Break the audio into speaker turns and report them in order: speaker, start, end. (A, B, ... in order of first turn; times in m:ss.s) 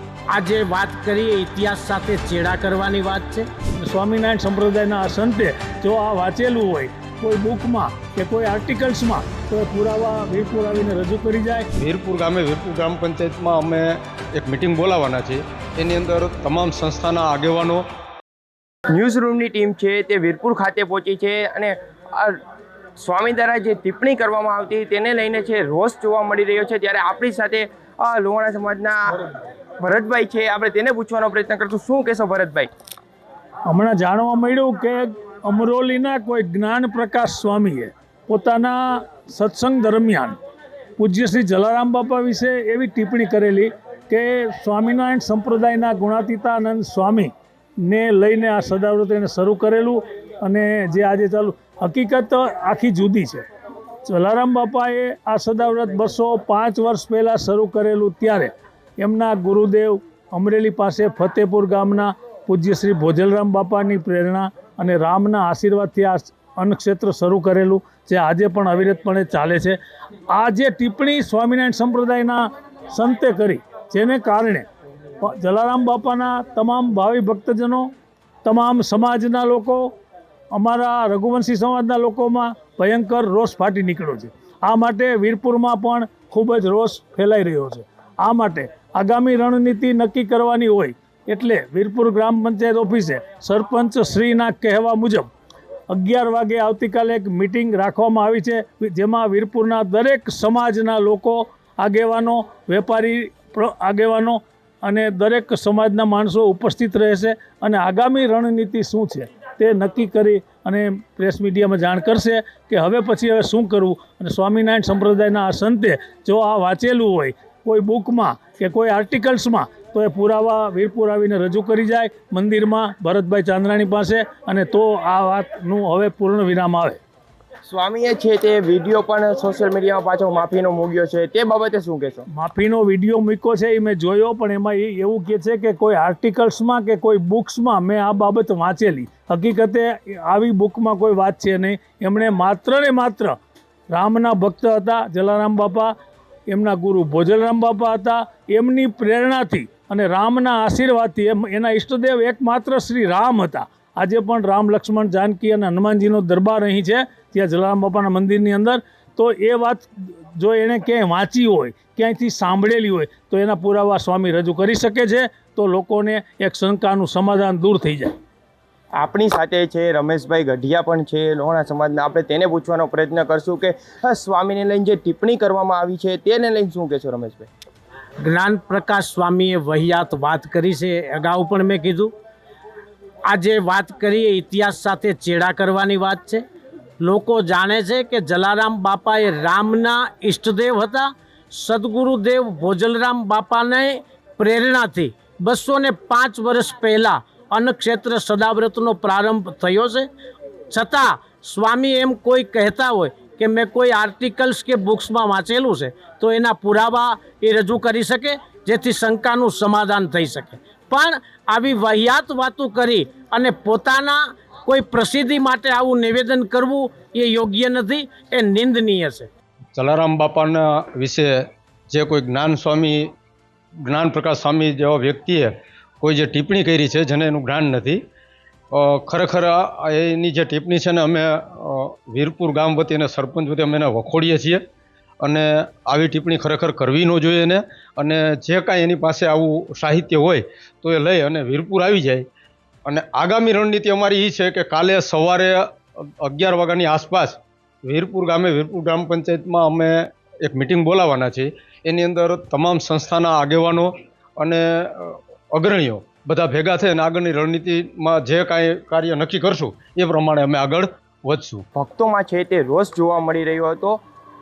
0:00.3-0:03.5 A
0:03.8-0:11.7 B
0:11.8-0:17.8 C
0:18.9-0:22.4 D
0:23.0-0:29.0 D
0:29.8-0:32.7 D
0:33.7-0:40.4 B
0:41.0-0:53.4 B
0:54.1-1:09.8 B
1:10.3-1:14.7 B
1:15.2-1:17.9 B
1:18.4-1:19.9 B
1:20.5-1:35.3 B
1:35.9-2:07.0 B
2:07.7-2:12.2 D
2:12.3-2:23.4 B
2:23.9-2:25.9 B
2:26.5-2:48.1 B
2:49.0-2:57.5 D
2:58.2-3:02.1 A
3:03.3-3:06.4 A
3:07.0-3:20.1 A
3:20.7-3:39.3 A
3:39.8-3:43.1 C
3:43.8-3:48.0 C
3:48.7-3:54.6 C
3:55.2-4:02.2 C
4:02.9-4:05.6 C
4:06.2-4:21.6 C
4:21.8-4:24.0 D